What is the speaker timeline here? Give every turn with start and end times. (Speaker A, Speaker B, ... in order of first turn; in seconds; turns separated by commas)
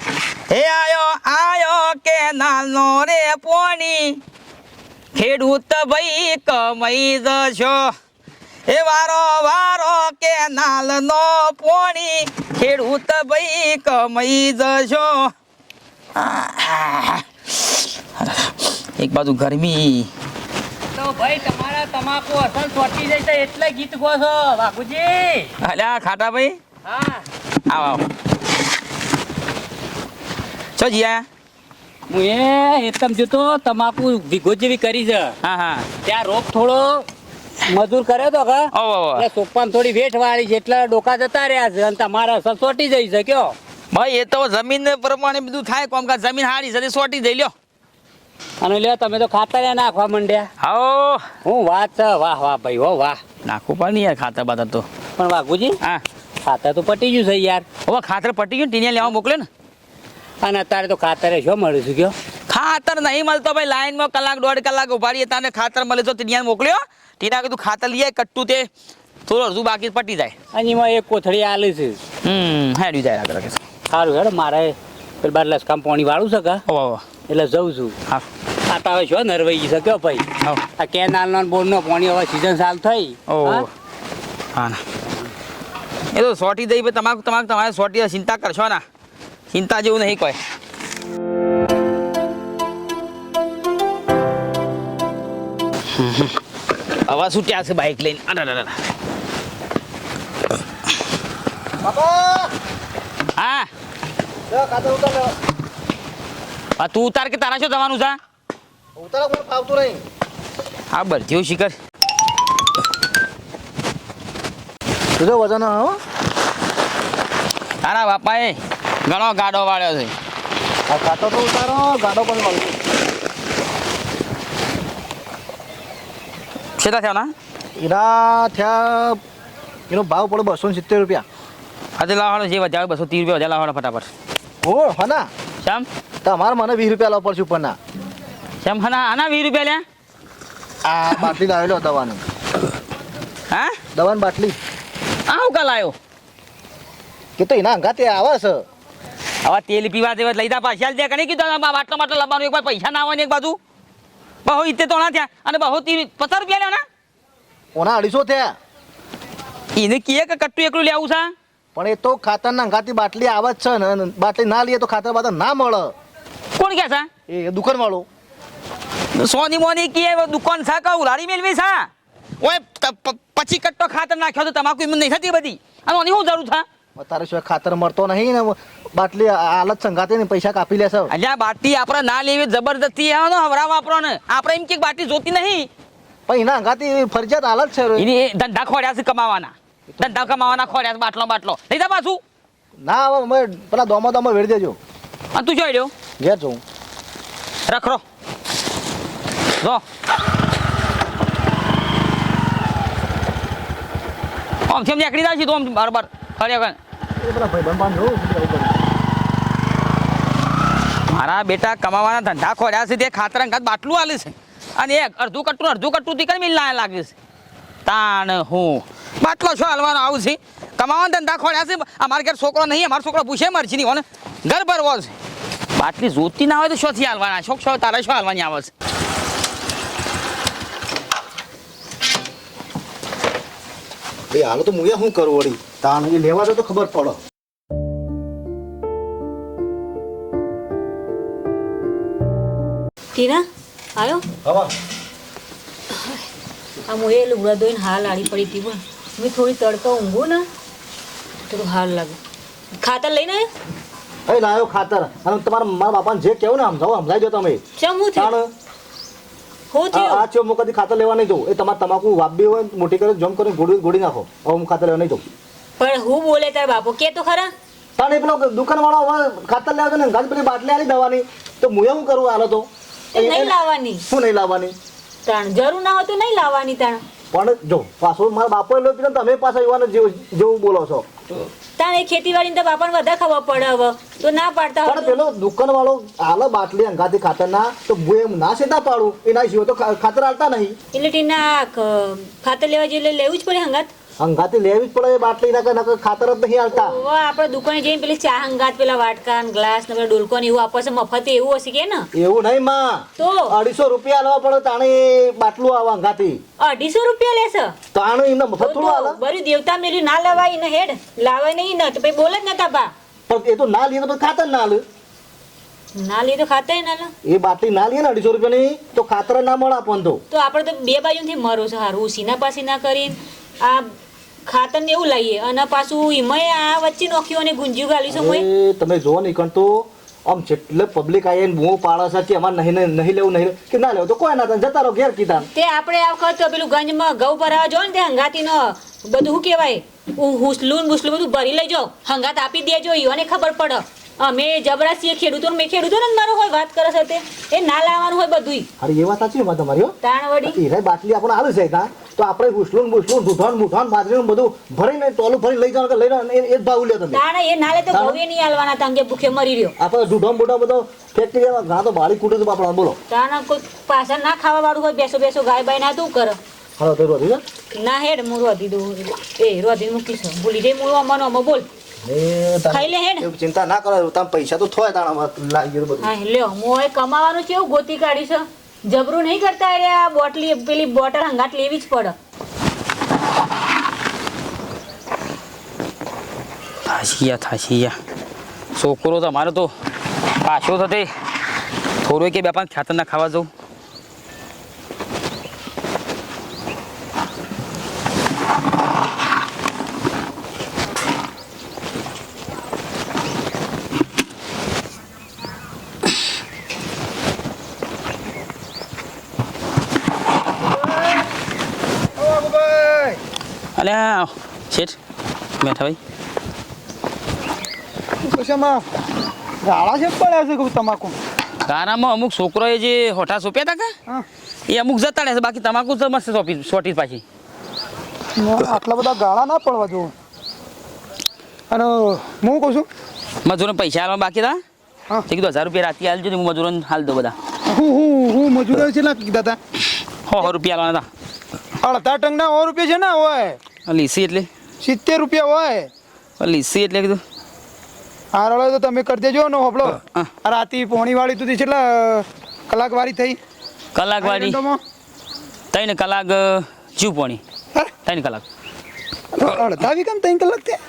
Speaker A: 0.5-4.2, Speaker A: 5.1-7.9, Speaker A: 8.7-15.3, Speaker A: 16.1-20.1, Speaker B: 20.9-25.5, Speaker A: 25.6-26.6, Speaker B: 26.8-27.2, Speaker A: 27.6-28.1, Speaker A: 30.8-31.2, Speaker B: 32.1-35.4, Speaker A: 35.4-35.9, Speaker B: 36.0-37.1, Speaker B: 37.6-43.5, Speaker A: 38.7-39.2, Speaker A: 43.9-47.5, Speaker B: 48.6-50.5, Speaker A: 50.6-51.3, Speaker B: 51.4-53.2, Speaker A: 53.4-54.9, Speaker B: 55.2-55.8, Speaker B: 56.4-57.7, Speaker A: 57.8-59.5, Speaker B: 60.4-62.1, Speaker A: 62.5-68.7, Speaker A: 69.2-70.3, Speaker B: 70.5-72.0, Speaker A: 72.2-73.6, Speaker B: 73.9-76.6, Speaker A: 76.7-77.1, Speaker B: 77.2-78.0, Speaker B: 78.6-83.7, Speaker A: 83.3-83.7, Speaker A: 84.5-84.8, Speaker A: 86.1-88.8, Speaker A: 89.5-90.4, Speaker A: 95.9-96.4, Speaker A: 97.0-98.8, Speaker C: 101.8-102.5, Speaker A: 103.3-103.7, Speaker C: 104.5-105.3, Speaker A: 106.8-108.2, Speaker C: 109.0-110.0, Speaker A: 110.9-111.8, Speaker C: 115.2-116.0, Speaker A: 117.8-120.1, Speaker C: 120.9-122.8, Speaker A: 126.8-127.3, Speaker C: 127.8-129.2, Speaker C: 129.9-131.2, Speaker A: 132.0-134.1, Speaker C: 134.6-135.3, Speaker C: 136.2-137.8, Speaker A: 138.6-139.8, Speaker C: 140.8-142.2, Speaker A: 143.5-143.7, Speaker C: 143.9-144.6, Speaker A: 145.3-145.9, Speaker C: 147.4-148.6, Speaker A: 149.4-153.6, Speaker A: 154.4-156.8, Speaker C: 157.7-158.5, Speaker A: 159.7-161.3, Speaker C: 161.7-165.9, Speaker A: 166.6-167.1, Speaker C: 167.3-168.1, Speaker A: 169.1-171.9, Speaker A: 172.4-176.6, Speaker C: 176.9-181.1, Speaker A: 181.1-185.7, Speaker C: 186.3-188.1, Speaker A: 187.9-192.2, Speaker C: 189.9-190.8, Speaker C: 192.8-194.8, Speaker A: 195.3-195.9, Speaker C: 196.2-196.6, Speaker A: 197.7-198.0, Speaker A: 204.7-206.8, Speaker C: 207.2-208.8, Speaker A: 211.1-217.1, Speaker A: 217.8-225.1, Speaker A: 225.8-228.7, Speaker C: 234.3-237.2, Speaker D: 243.1-243.4, Speaker D: 243.9-244.2, Speaker C: 244.4-244.7, Speaker D: 245.9-246.2, Speaker D: 246.9-250.5, Speaker D: 251.5-252.2, Speaker D: 252.8-253.5, Speaker C: 254.3-257.6, Speaker D: 257.8-258.3, Speaker C: 258.1-258.5, Speaker D: 259.7-260.3, Speaker C: 259.9-265.2, Speaker D: 265.8-267.5, Speaker C: 268.0-273.6, Speaker D: 273.1-274.0, Speaker C: 274.1-274.7, Speaker D: 275.2-277.0, Speaker C: 277.3-281.1, Speaker D: 281.8-285.2, Speaker C: 284.8-290.8, Speaker D: 290.9-293.9, Speaker C: 294.2-297.0, Speaker D: 296.7-302.1, Speaker C: 302.1-306.4, Speaker D: 303.2-303.5, Speaker D: 306.6-307.7, Speaker C: 307.9-309.2, Speaker D: 308.6-312.9, Speaker C: 313.3-314.8, Speaker D: 315.9-317.1, Speaker C: 317.2-320.2, Speaker D: 320.3-323.9, Speaker D: 324.4-328.4, Speaker C: 328.1-335.5, Speaker D: 335.5-348.7, Speaker C: 348.8-357.2, Speaker D: 350.0-350.6, Speaker D: 357.1-359.7, Speaker C: 357.9-358.2, Speaker C: 359.8-363.0, Speaker D: 363.1-366.4, Speaker C: 366.8-367.4, Speaker D: 367.7-371.7, Speaker C: 372.0-376.1, Speaker D: 372.7-373.3, Speaker D: 376.0-382.1, Speaker A: 386.9-387.9, Speaker A: 388.7-389.7, Speaker A: 390.4-391.1, Speaker A: 392.0-393.5, Speaker E: 412.2-413.2, Speaker A: 413.8-414.9, Speaker A: 415.6-416.0, Speaker E: 418.2-418.8, Speaker E: 419.6-421.1, Speaker A: 421.6-423.9, Speaker A: 424.7-427.2, Speaker E: 428.4-430.1, Speaker E: 431.7-432.9, Speaker A: 433.4-434.6, Speaker A: 435.3-437.4, Speaker E: 437.7-439.6, Speaker A: 440.3-441.1, Speaker E: 441.8-443.6, Speaker A: 443.9-444.5, Speaker E: 444.8-445.9, Speaker A: 446.4-447.2, Speaker E: 448.3-453.4, Speaker A: 453.9-454.6, Speaker E: 454.2-454.8, Speaker A: 455.7-457.4, Speaker A: 458.1-458.4, Speaker E: 459.3-460.8